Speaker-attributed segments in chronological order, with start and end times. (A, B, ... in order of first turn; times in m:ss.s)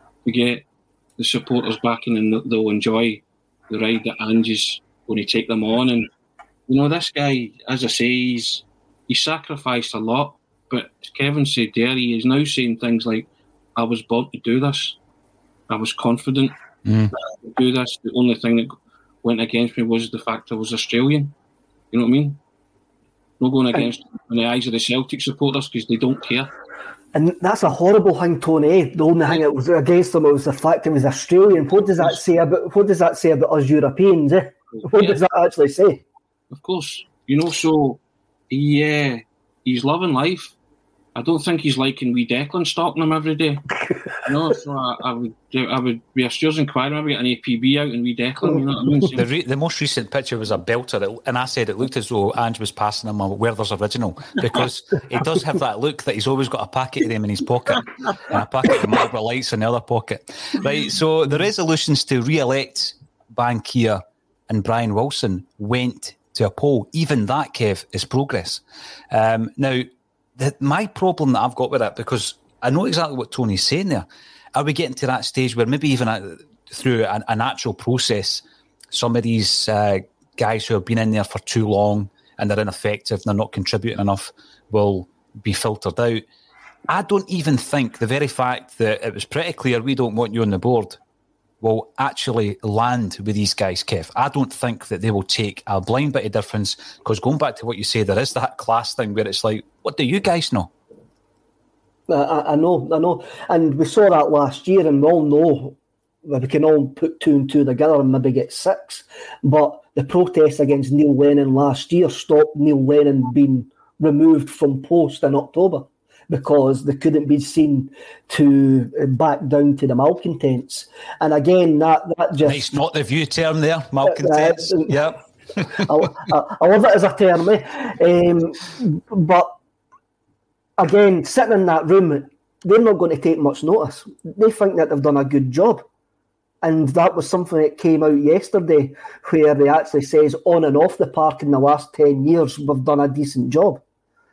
0:00.2-0:00.6 A
0:01.2-0:06.1 A
0:06.7-0:15.0 A
0:15.7-0:16.6 A
0:16.8-0:17.1 B
0:17.2-0:21.3 A
0:21.9-0:22.4 A
0:23.4-0:26.5 A
0:27.1-0:36.0 C
0:34.8-0:35.2 A
0:36.5-0:40.6 A
0:41.2-0:43.6 A
0:44.2-0:49.3 A
0:49.2-1:26.2 B
1:26.9-1:31.0 B
1:31.6-1:40.7 B
1:42.1-2:02.7 C
2:02.4-2:06.0 B
2:04.0-2:05.0 C
2:05.7-2:09.5 C
2:10.8-2:15.8 C
2:16.6-2:23.8 C